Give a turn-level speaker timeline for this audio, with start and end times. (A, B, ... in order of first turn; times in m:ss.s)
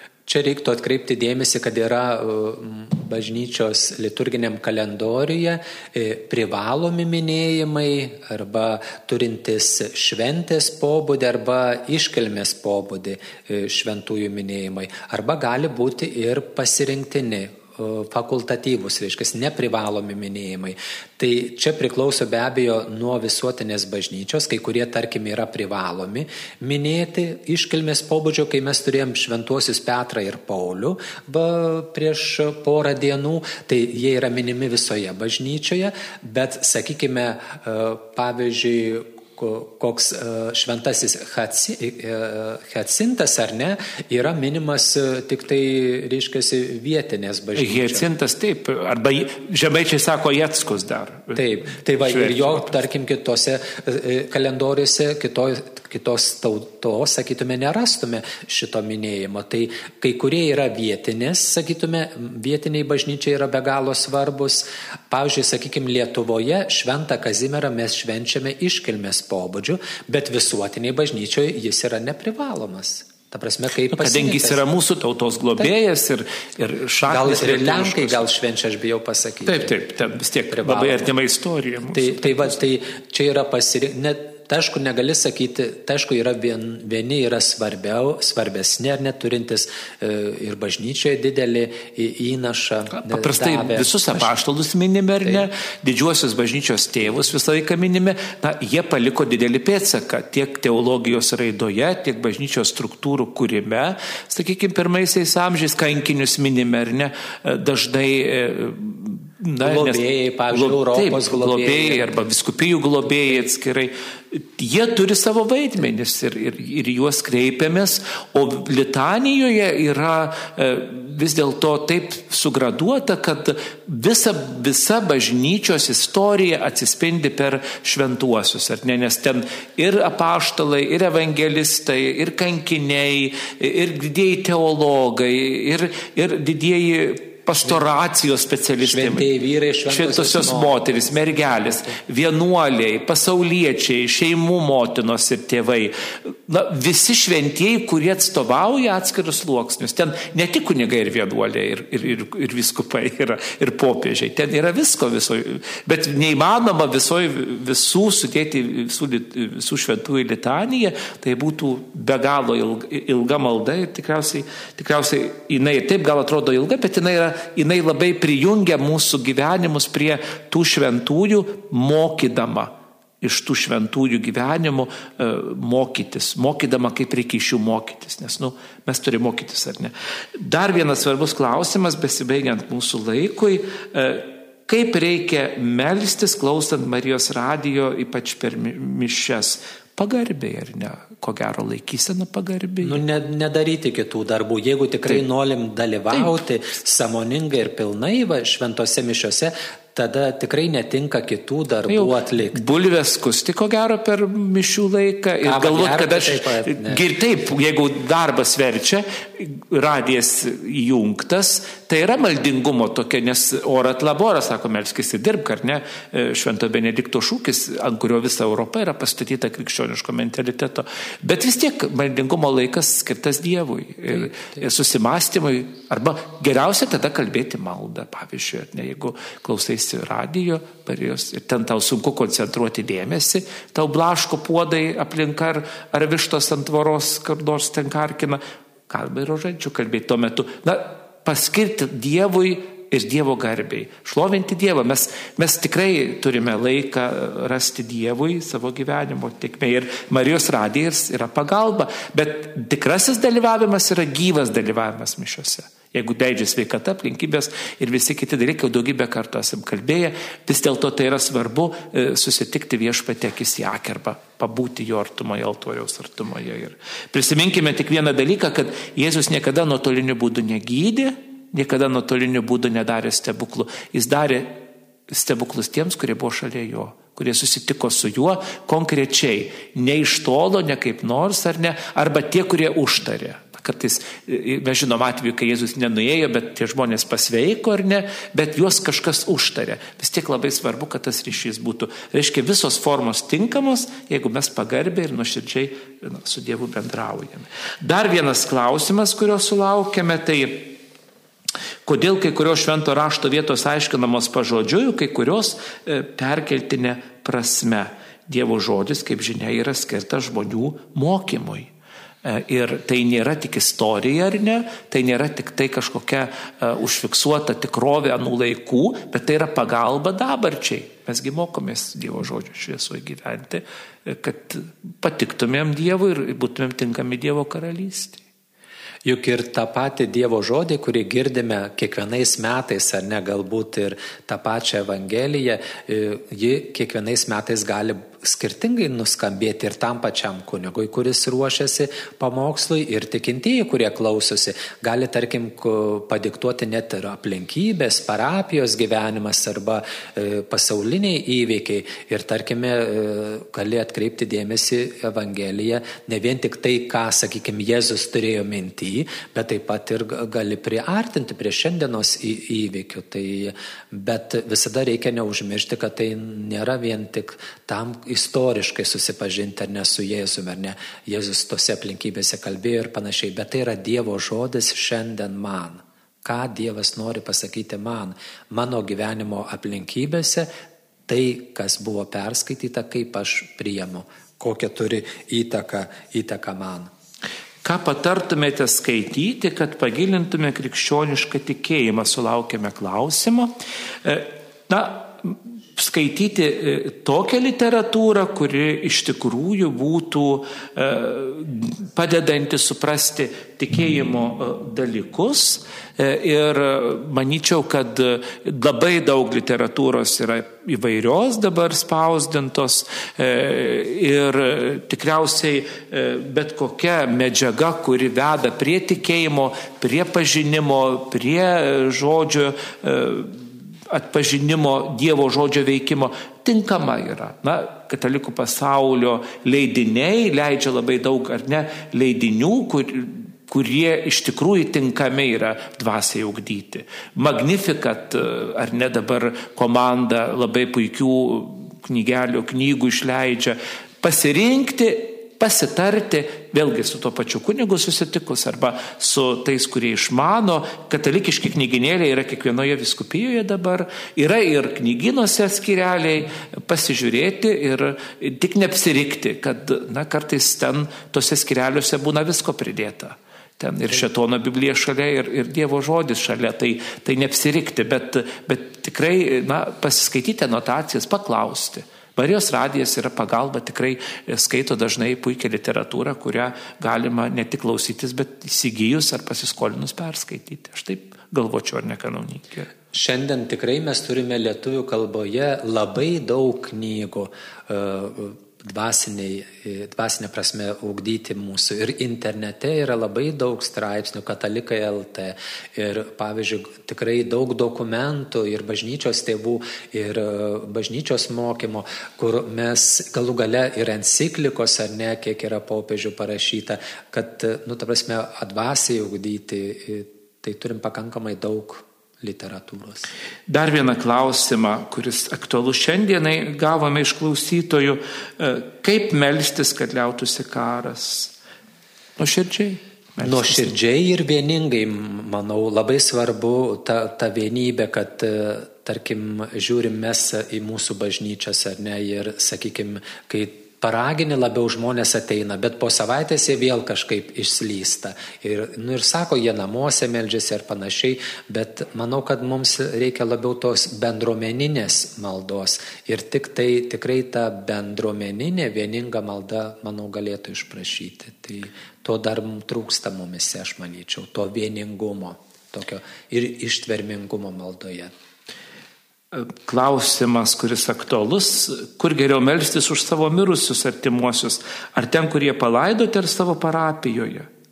0:00.3-0:48.1 A
0:47.5-0:52.8 B
0:51.4-1:14.6 A
1:13.9-1:18.3 B
1:17.1-1:19.8 A
1:19.4-1:22.6 B
1:20.5-1:21.1 A
1:21.9-1:34.3 A
1:32.9-2:19.3 B
1:49.6-1:52.1 A
2:18.8-2:21.4 A
2:19.9-3:13.0 B
3:12.8-3:22.6 A
3:21.9-5:00.8 B
3:25.4-3:27.0 A
5:01.8-5:11.7 B
5:12.2-5:28.2 B
5:29.0-6:20.5 A
6:21.1-6:26.9 A
6:27.6-8:02.7 B
8:02.9-8:33.1 A
8:33.5-8:41.3 B
8:42.2-8:43.7 B
8:43.2-9:18.1 A
9:19.3-9:27.5 B